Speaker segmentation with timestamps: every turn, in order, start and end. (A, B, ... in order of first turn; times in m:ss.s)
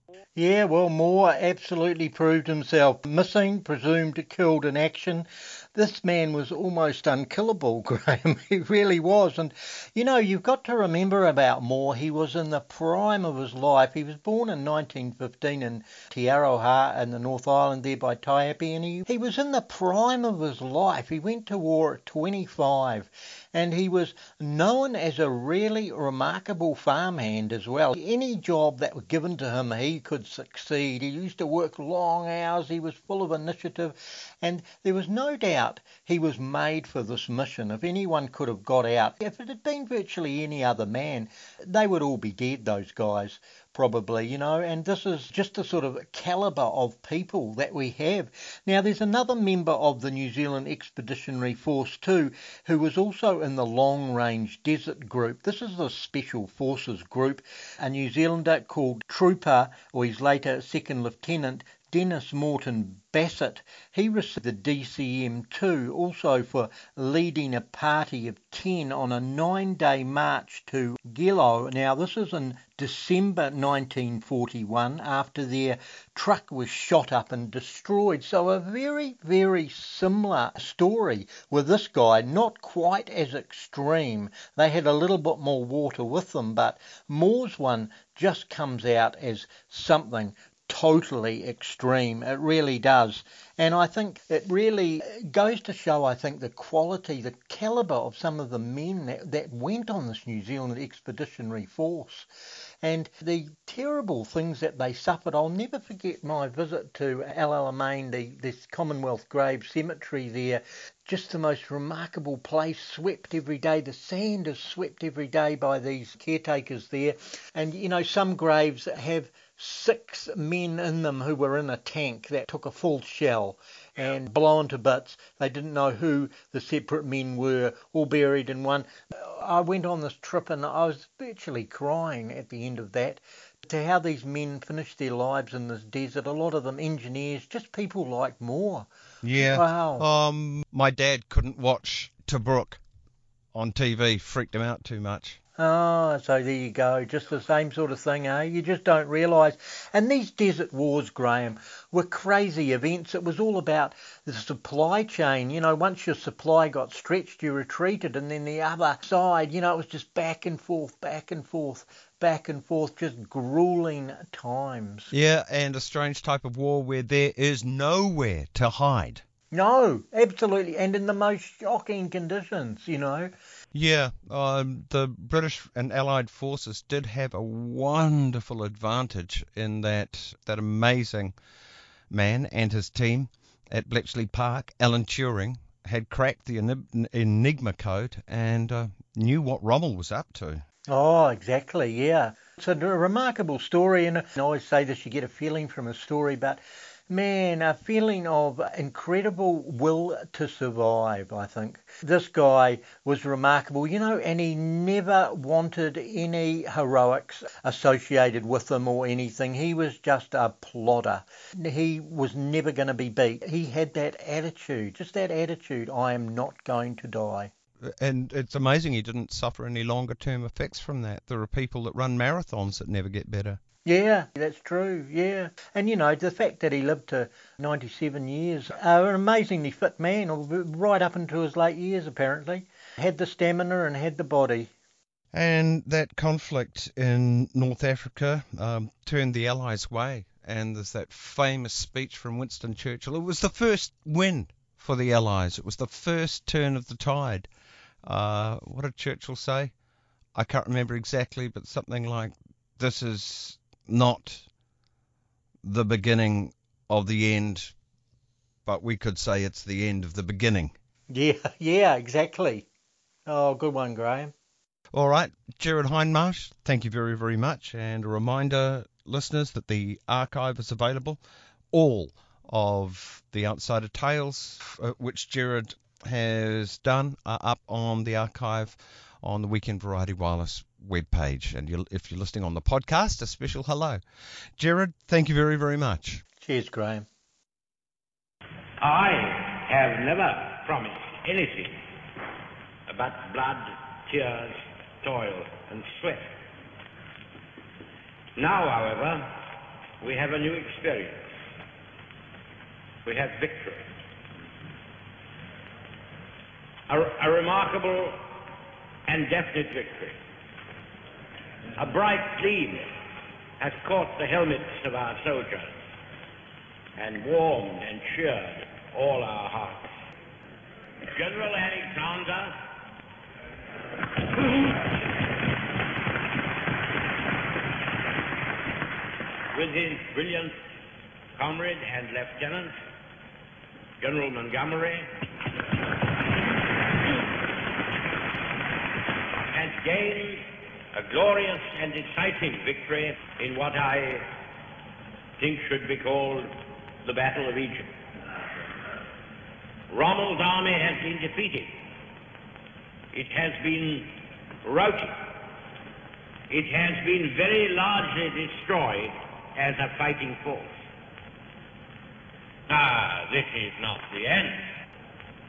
0:00.4-1:42.3 A
1:42.8-2:18.9 A
2:19.2-2:22.8 B
2:19.4-2:20.0 A
2:23.5-2:25.4 B
2:25.6-2:45.1 A
2:45.1-2:49.2 B
2:49.5-2:53.3 A
2:53.7-3:01.3 B
3:02.1-3:10.6 B
3:10.9-3:37.5 A
3:37.8-3:43.6 B
3:43.8-3:54.7 A
3:55.3-4:07.5 B
4:08.0-4:09.7 B
4:10.3-4:14.5 B
4:15.6-4:17.7 B
4:18.6-4:20.7 B
4:21.1-4:22.6 A
4:23.3-4:24.3 A
4:24.9-4:31.2 B
4:31.7-4:44.0 B
4:44.6-4:46.2 B
4:46.4-4:47.0 A
4:48.8-4:51.8 C
4:52.9-4:56.3 C
4:58.4-4:59.4 C
5:00.0-5:01.3 C
5:03.0-5:03.9 C
5:06.9-5:08.2 C
5:09.1-5:10.2 C
5:11.8-5:12.9 C
5:13.6-5:15.8 C
5:17.0-5:19.9 C
5:21.1-5:22.6 C
5:29.5-5:30.6 C
5:31.4-5:32.7 C
5:34.0-5:35.2 C
5:39.5-5:44.3 C
5:45.4-5:47.9 C
5:49.9-5:51.7 C
5:53.1-5:55.5 C
5:56.5-6:00.8 C
6:02.7-6:04.7 C